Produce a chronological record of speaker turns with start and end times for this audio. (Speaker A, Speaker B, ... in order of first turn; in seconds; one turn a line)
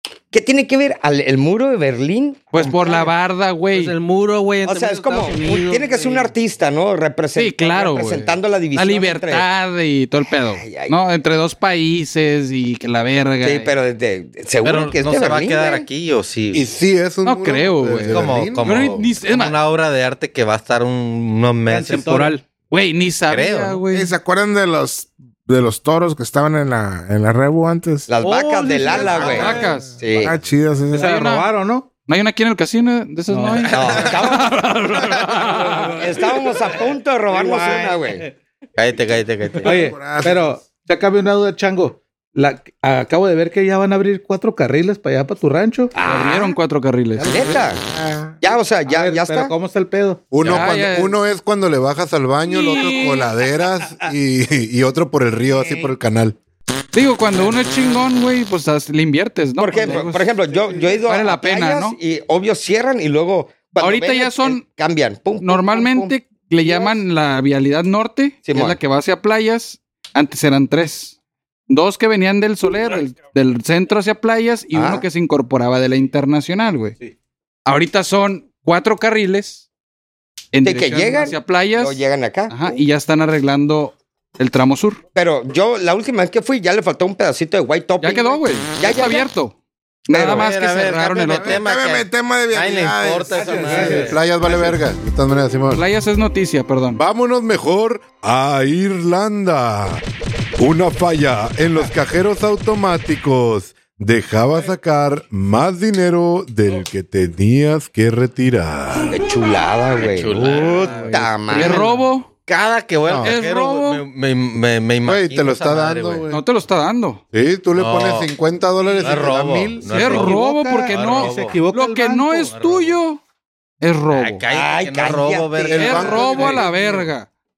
Speaker A: 0.3-3.1
Speaker B: 2.5-3.9
Speaker C: 3.7-6.3
Speaker A: 4.6-9.5
Speaker B: 7.3-13.7
Speaker A: 10.3-11.0
Speaker A: 13.4-15.9
Speaker D: 14.6-16.7
Speaker E: 16.5-18.9
Speaker B: 17.2-19.6
Speaker D: 18.1-22.1
Speaker F: 21.7-22.4
Speaker C: 21.9-22.4
Speaker B: 22.7-24.1
Speaker D: 23.3-23.8
Speaker G: 23.9-28.1
Speaker A: 28.1-30.4
Speaker C: 28.2-29.4
Speaker F: 28.9-29.7
Speaker B: 28.9-29.9
Speaker G: 29.6-31.2
Speaker D: 30.1-30.3
Speaker F: 30.9-31.9
Speaker B: 31.0-31.5
Speaker B: 32.1-36.0
Speaker F: 33.3-34.0
Speaker A: 33.7-34.7
Speaker F: 35.1-38.4
Speaker A: 36.0-38.2
Speaker D: 38.8-39.8
Speaker F: 39.6-45.9
Speaker G: 39.7-40.5
Speaker A: 45.9-46.5
Speaker B: 46.0-47.3
Speaker F: 47.1-47.7
Speaker A: 47.3-47.8
Speaker G: 47.9-48.4
Speaker A: 48.4-49.5
Speaker F: 48.9-50.3
Speaker E: 50.3-56.4
Speaker D: 50.4-50.7
Speaker B: 50.4-51.2
Speaker B: 52.5-53.3
Speaker A: 55.5-55.9
Speaker B: 56.9-60.3
Speaker A: 59.6-67.0
Speaker F: 60.5-61.0
Speaker B: 61.0-62.0
Speaker B: 63.8-64.6
Speaker B: 65.4-71.2
Speaker A: 68.5-68.8
Speaker B: 71.7-77.0
Speaker A: 74.7-75.0
Speaker B: 77.7-79.7
Speaker B: 80.5-85.0
Speaker A: 80.6-82.8
Speaker A: 85.2-89.3
Speaker B: 88.0-89.5
Speaker B: 90.1-91.6
Speaker A: 90.1-90.5
Speaker D: 90.3-94.2
Speaker G: 91.4-93.9
Speaker F: 93.3-94.2
Speaker E: 93.9-95.8
Speaker B: 95.7-97.0
Speaker E: 97.0-100.0
Speaker E: 100.6-109.2
Speaker A: 109.1-111.9
Speaker D: 110.0-111.9
Speaker B: 111.5-112.3
Speaker D: 112.5-116.2
Speaker E: 113.1-113.3
Speaker B: 113.2-114.0
Speaker E: 115.0-116.3
Speaker B: 116.3-117.2
Speaker E: 117.3-119.9
Speaker D: 117.8-118.3
Speaker D: 119.0-121.6
Speaker F: 119.9-122.5
Speaker B: 119.9-123.2
Speaker D: 122.5-123.0
Speaker B: 123.8-124.4
Speaker D: 124.1-126.7
Speaker A: 124.5-126.6
Speaker E: 125.7-126.6
Speaker B: 125.8-127.3